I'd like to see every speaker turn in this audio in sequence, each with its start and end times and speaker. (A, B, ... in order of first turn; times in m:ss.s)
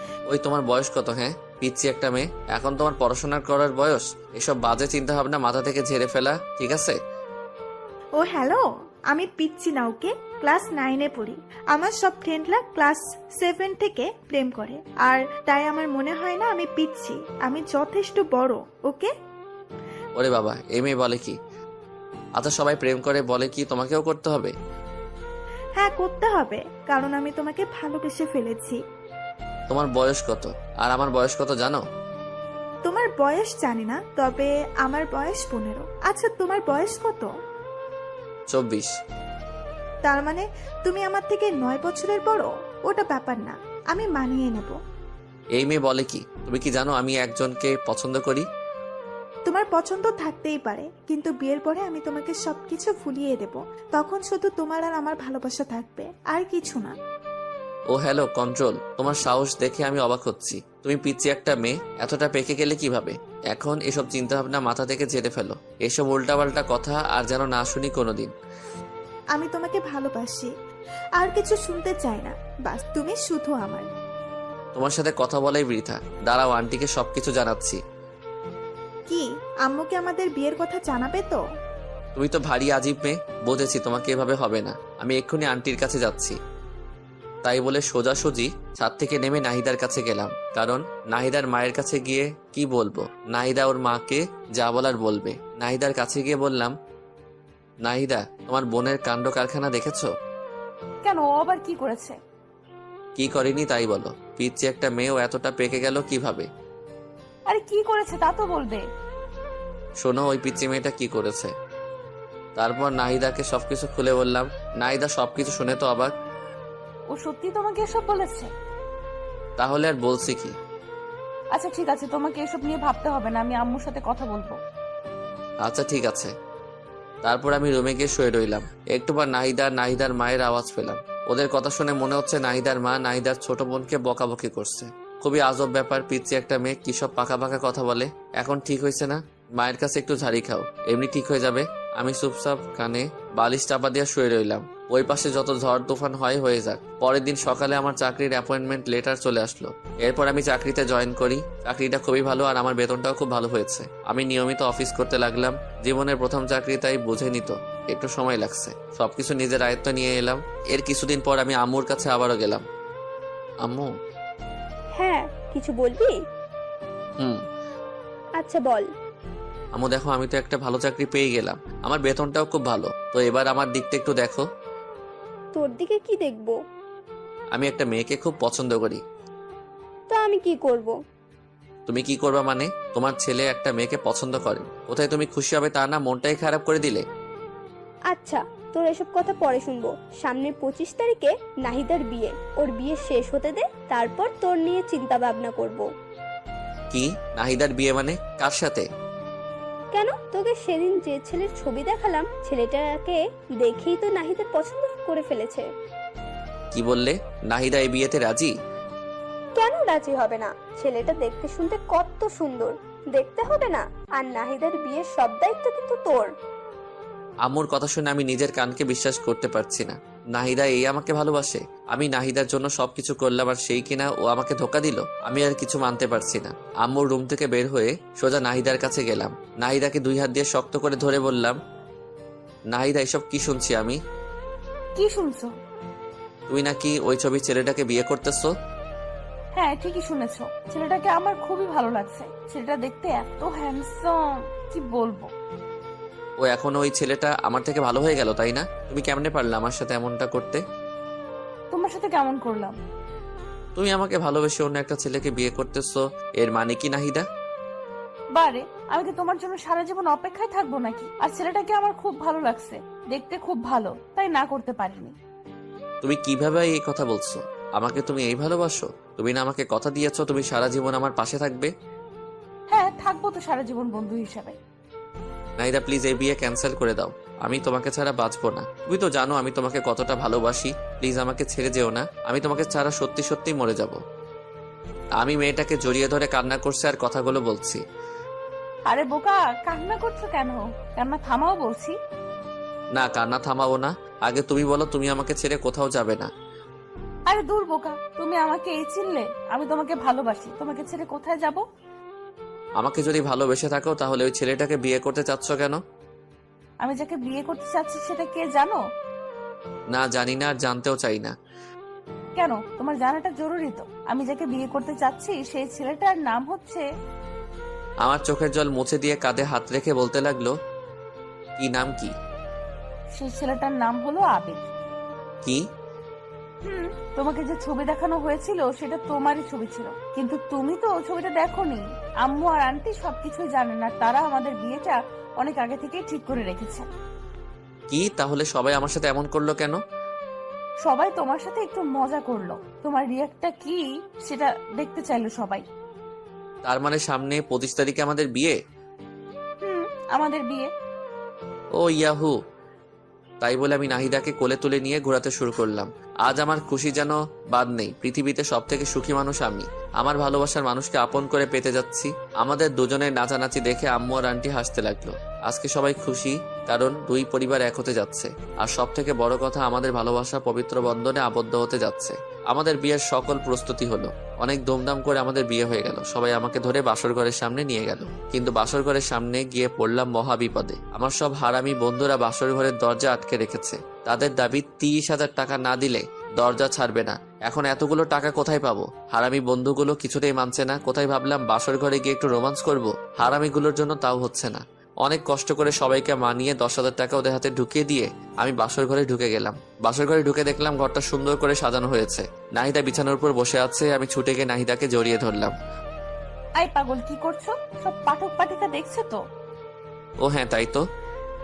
0:00.3-0:07.0 A
0:08.2-0:19.1 B
0:20.2-0:21.4 A
0:22.4-0:24.5 A
0:25.8-0:28.8 B
0:29.7-0:31.8 A
0:32.8-0:37.3 B
0:38.5-0:38.9 A
0:40.1-0:44.8 B
0:45.6-0:48.5 A
0:49.5-0:56.9 B
0:57.9-1:08.3 A
1:09.4-1:10.5 B
1:11.2-1:13.9 B
1:14.8-1:17.8 A
1:19.1-1:21.4 B
1:22.2-1:26.4 A
1:27.4-1:36.7 A
1:37.8-1:40.1 A
1:41.0-1:42.2 C
1:43.2-1:46.5 A
1:47.5-1:48.8 C
1:50.0-1:51.5 A
1:52.6-1:56.1 A
1:57.1-1:58.5 C
1:59.6-2:00.6 A
2:01.5-2:04.6 C
2:05.6-2:06.3 A
2:07.2-2:42.6 A
2:43.6-2:43.9 A
2:45.0-2:46.2 D
2:48.4-2:48.9 D
2:49.7-2:54.4 A
2:55.5-2:56.5 D
2:57.5-2:59.0 A
3:00.1-3:00.9 D
3:01.9-3:07.0 A
3:08.1-3:15.8 D
3:16.9-3:18.9 A
3:19.9-3:25.6 D
3:26.7-3:28.5 A
3:29.6-3:36.3 D
3:37.4-3:51.6 A
3:52.7-3:54.0 A
3:55.0-3:55.5 C
3:56.5-3:58.5 A
3:59.6-4:04.2 C
4:04.7-4:05.3 C
4:06.4-4:10.6 A
4:11.7-4:12.8 C
4:13.8-4:17.2 A
4:18.4-4:25.2 C
4:26.0-4:31.7 A
4:32.7-4:34.6 C
4:35.6-4:44.0 A
4:45.2-4:47.8 A
4:48.9-4:52.0 C
4:52.9-4:56.3 A
4:57.3-5:01.6 C
5:02.8-5:05.8 A
5:06.8-5:08.8 C
5:09.9-5:11.4 A
5:12.4-5:16.8 C
5:18.0-5:20.5 A
5:21.6-5:22.1 A
5:23.2-5:24.7 C
5:26.6-5:36.9 C
5:37.9-5:39.8 A
5:40.8-5:45.6 C
5:46.6-5:48.6 A
5:49.6-5:50.7 C
5:51.8-5:52.4 A
5:53.4-6:45.5 A
6:46.6-6:49.2 C
6:50.2-6:50.8 A